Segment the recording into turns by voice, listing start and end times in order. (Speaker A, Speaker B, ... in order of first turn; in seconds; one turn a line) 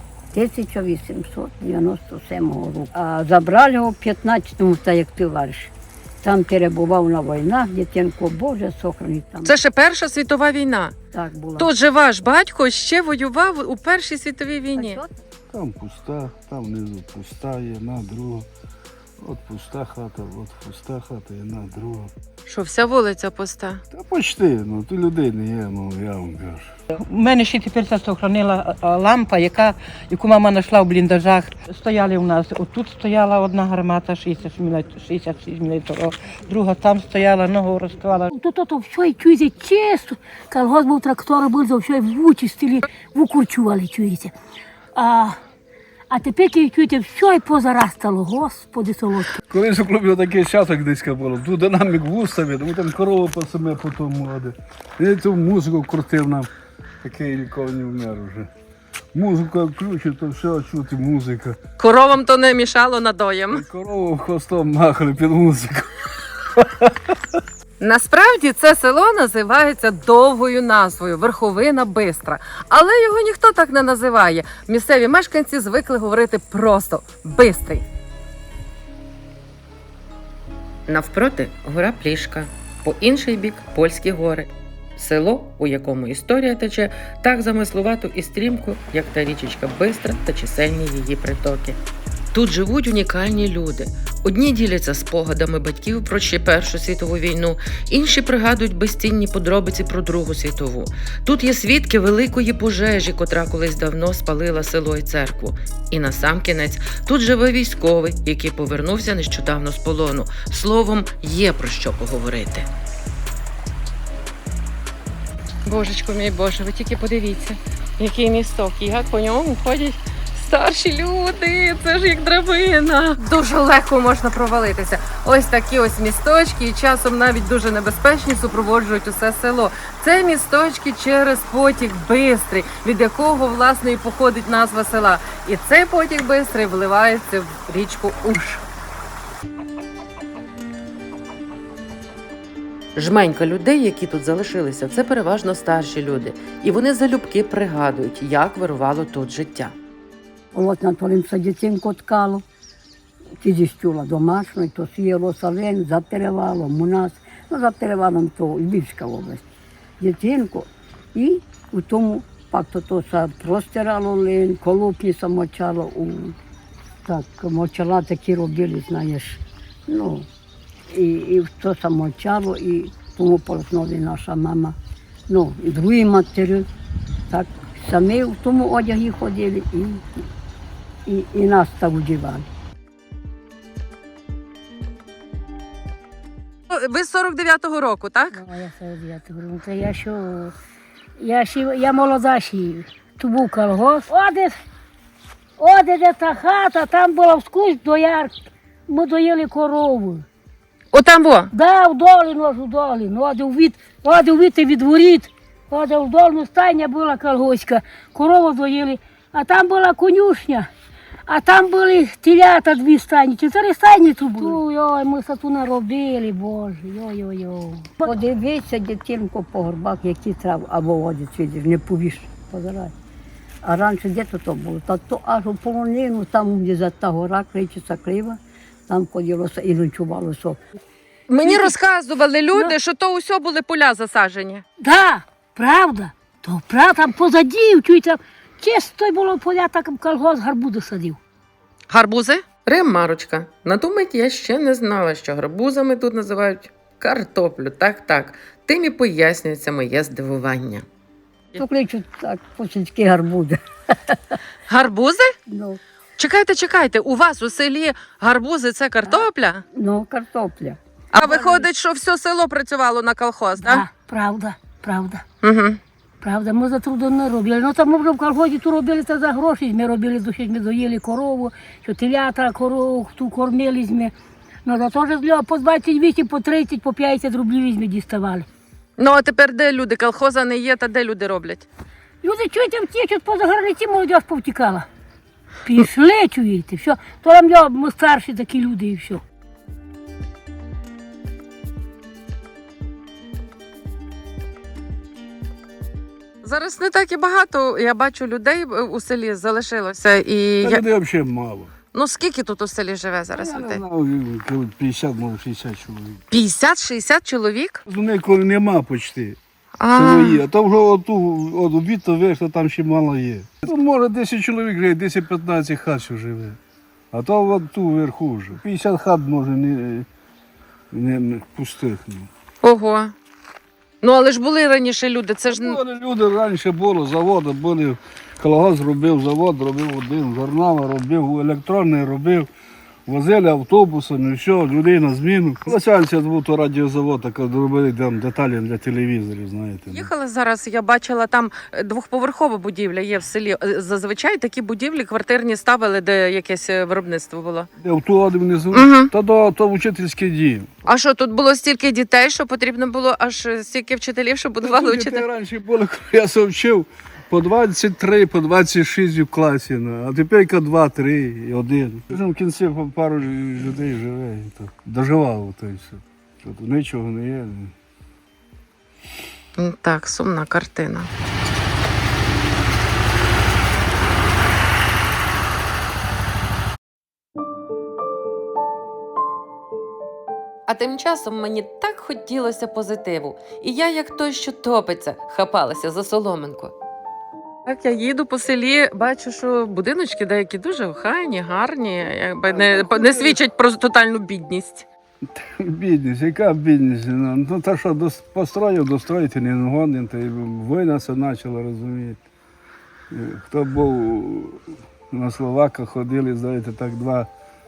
Speaker A: 0.3-5.7
Speaker A: 6.2-9.5
Speaker B: 9.4-11.0
Speaker A: 11.1-11.7
Speaker B: 11.6-15.0
Speaker A: 14.8-15.1
Speaker C: 15.5-18.5
Speaker C: 19.2-22.1
Speaker B: 22.5-23.8
Speaker C: 23.9-26.7
Speaker D: 26.9-38.3
Speaker E: 38.3-44.3
Speaker E: 45.0-45.4
Speaker E: 46.1-49.4
Speaker C: 49.5-56.5
Speaker C: 57.0-58.5
Speaker C: 59.1-61.6
Speaker B: 61.8-63.6
Speaker C: 63.5-67.2
Speaker B: 67.8-77.8
Speaker B: 80.9-91.8
Speaker B: 92.3-112.7
Speaker B: 115.7-138.7
Speaker B: 142.9-149.8
Speaker A: 150.5-152.4
Speaker A: 153.4-159.4
Speaker A: 160.0-166.4
Speaker A: 167.1-170.3
Speaker A: 170.9-174.8
Speaker A: 175.3-176.7
Speaker A: 177.3-180.2
Speaker A: 181.1-182.5
Speaker B: 186.7-188.4
Speaker E: 188.3-190.5
Speaker E: 191.2-194.6
Speaker E: 195.6-198.3
Speaker E: 198.9-200.2
Speaker B: 200.9-201.5
Speaker E: 201.5-210.7
Speaker E: 211.3-218.1
Speaker A: 218.0-222.9
Speaker A: 223.6-230.6
Speaker B: 231.3-234.7
Speaker E: 231.4-231.7
Speaker E: 234.8-241.2
Speaker B: 241.9-250.9
Speaker A: 251.5-254.4
Speaker B: 254.7-255.3
Speaker A: 255.5-255.8
Speaker B: 256.2-259.6
Speaker A: 259.7-261.6
Speaker B: 261.1-263.9
Speaker E: 263.6-265.2
Speaker B: 265.4-265.8
Speaker E: 266.2-274.1
Speaker E: 274.6-278.5
Speaker B: 279.0-281.7
Speaker E: 282.2-284.9
Speaker E: 285.6-289.2
Speaker B: 296.4-300.8
Speaker C: 300.6-301.7
Speaker B: 301.9-303.8
Speaker C: 303.4-306.2
Speaker B: 306.3-307.8
Speaker C: 307.9-309.4
Speaker B: 309.8-310.4
Speaker C: 309.9-316.6
Speaker C: 317.1-320.1
Speaker C: 320.9-322.3
Speaker B: 322.6-323.1
Speaker B: 324.0-325.8
Speaker C: 325.5-332.5
Speaker C: 333.1-340.1
Speaker B: 339.9-347.7
Speaker C: 347.8-350.7
Speaker B: 348.7-349.1
Speaker B: 350.9-355.3
Speaker C: 354.6-367.7
Speaker B: 369.6-371.1
Speaker B: 380.7-386.7
Speaker B: 387.7-394.9
Speaker C: 392.5-393.4
Speaker C: 395.3-402.2
Speaker C: 403.1-407.3